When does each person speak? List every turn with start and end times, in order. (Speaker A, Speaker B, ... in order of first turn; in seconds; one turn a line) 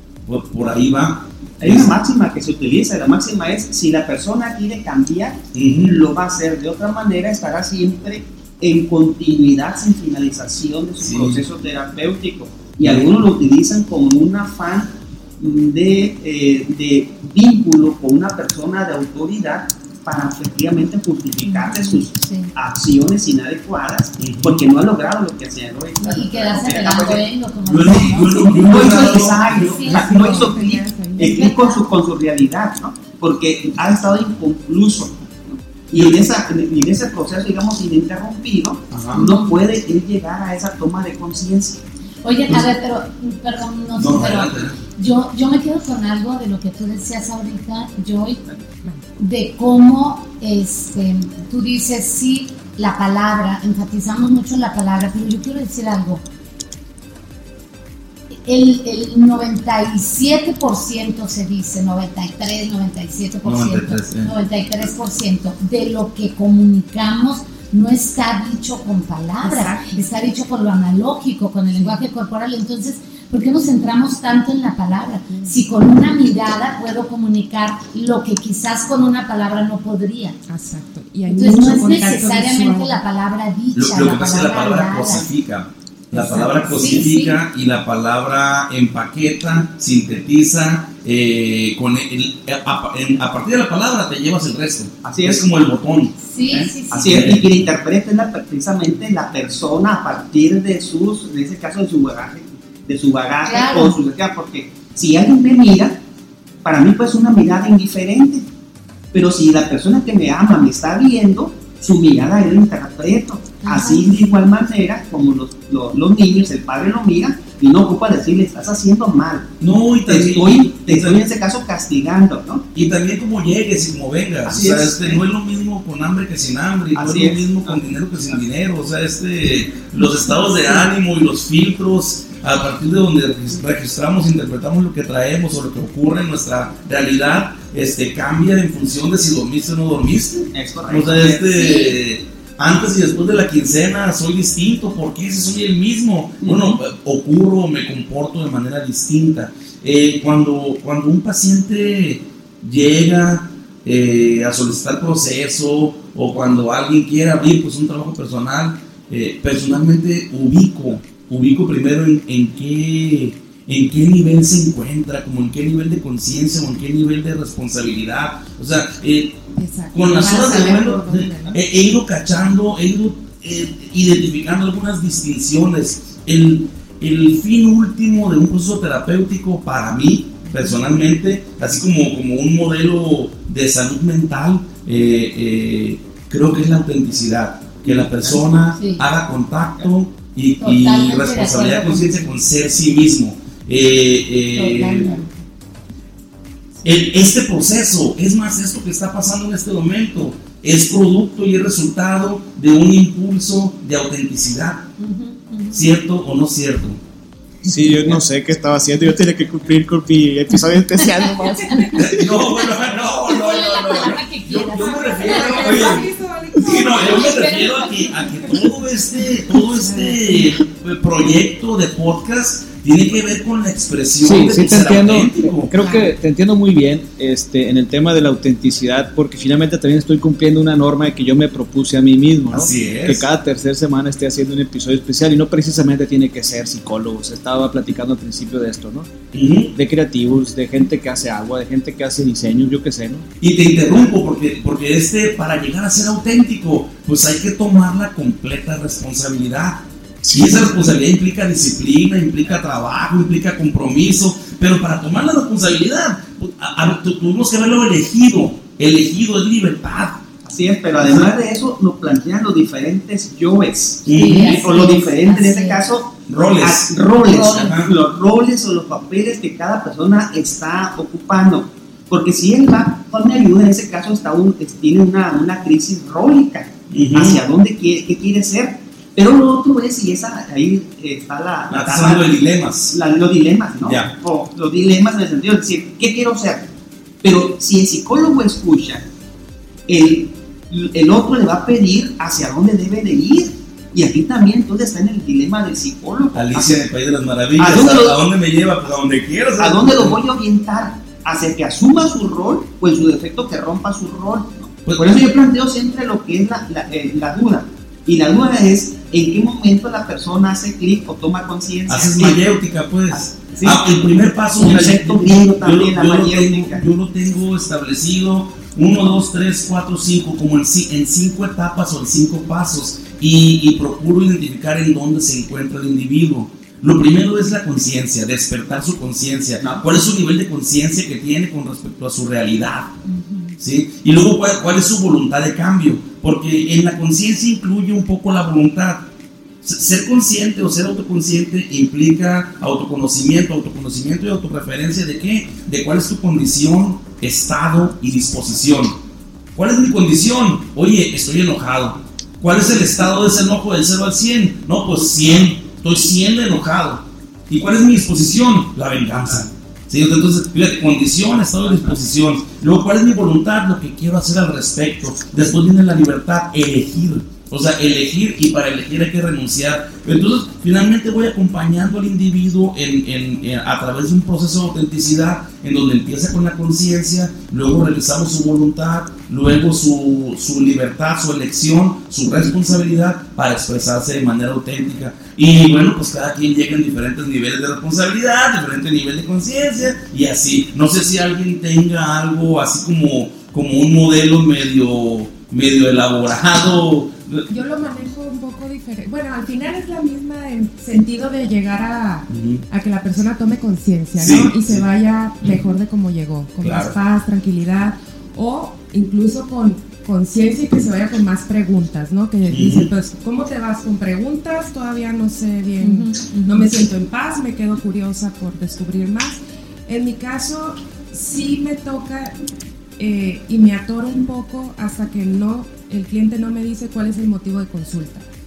Speaker A: 0.2-1.9
Speaker B: 1.6-27.3
Speaker A: 5.5-6.1
Speaker A: 11.0-11.4
Speaker A: 12.8-13.2
Speaker C: 21.4-22.5
Speaker A: 24.2-24.6
Speaker C: 26.0-31.8
Speaker A: 27.6-30.1
Speaker B: 28.3-41.8
Speaker D: 29.9-31.5
Speaker A: 38.9-39.3
Speaker C: 39.1-39.5
Speaker C: 42.2-48.4
Speaker A: 44.0-44.8
Speaker C: 49.2-56.2
Speaker C: 58.5-80.4
Speaker A: 63.4-64.3
Speaker D: 69.4-70.1
Speaker D: 71.7-72.0
Speaker D: 75.3-75.6
Speaker D: 80.5-83.0
Speaker C: 81.3-85.2
Speaker A: 83.7-97.5
Speaker D: 86.1-87.0
Speaker C: 86.6-87.4
Speaker B: 95.0-95.5
Speaker C: 96.2-97.3
Speaker B: 96.9-106.0
Speaker C: 103.4-104.0
Speaker B: 106.6-108.5
Speaker B: 109.1-119.5
Speaker C: 113.6-114.2
Speaker A: 119.6-121.2
Speaker B: 120.1-122.7
Speaker A: 122.7-169.4
Speaker B: 124.5-125.2
Speaker B: 127.0-128.0
Speaker B: 140.5-141.6
Speaker C: 141.5-141.9
Speaker B: 146.4-146.8
Speaker D: 169.5-171.6
Speaker A: 169.9-195.1
Speaker C: 170.1-170.9
Speaker D: 180.5-180.8
Speaker B: 187.8-188.4
Speaker C: 188.8-189.0
Speaker C: 190.6-192.2
Speaker C: 194.5-195.3
Speaker A: 196.8-204.9
Speaker C: 205.0-205.9
Speaker A: 205.7-207.0
Speaker E: 207.7-212.2
Speaker C: 211.0-212.1
Speaker A: 212.0-225.8
Speaker C: 213.0-216.1
Speaker D: 214.7-218.7
Speaker C: 216.8-217.9
Speaker D: 219.6-220.3
Speaker E: 224.2-239.1
Speaker D: 225.8-226.1
Speaker A: 232.5-233.3
Speaker A: 239.3-239.7
Speaker E: 239.7-243.3
Speaker A: 243.4-260.2
Speaker B: 260.4-286.7
Speaker A: 264.1-264.6
Speaker C: 264.1-265.9
Speaker A: 266.3-267.9
Speaker A: 276.9-277.4
Speaker A: 281.7-283.0
Speaker A: 283.8-284.1
Speaker B: 287.2-289.1
Speaker B: 289.9-296.8
Speaker A: 296.3-300.2
Speaker B: 297.6-298.2
Speaker B: 299.6-312.4
Speaker A: 304.9-305.3
Speaker A: 311.9-332.9
Speaker B: 313.1-313.8
Speaker B: 314.6-316.9
Speaker B: 329.6-330.0
Speaker C: 333.1-333.6
Speaker A: 333.6-339.1
Speaker A: 339.6-349.0
Speaker A: 349.5-397.5
Speaker B: 361.6-361.9
Speaker D: 397.5-422.4
Speaker A: 402.3-402.6
Speaker A: 404.2-404.9
Speaker A: 406.6-407.0
Speaker A: 412.5-412.9
Speaker C: 415.8-416.2
Speaker D: 423.0-428.3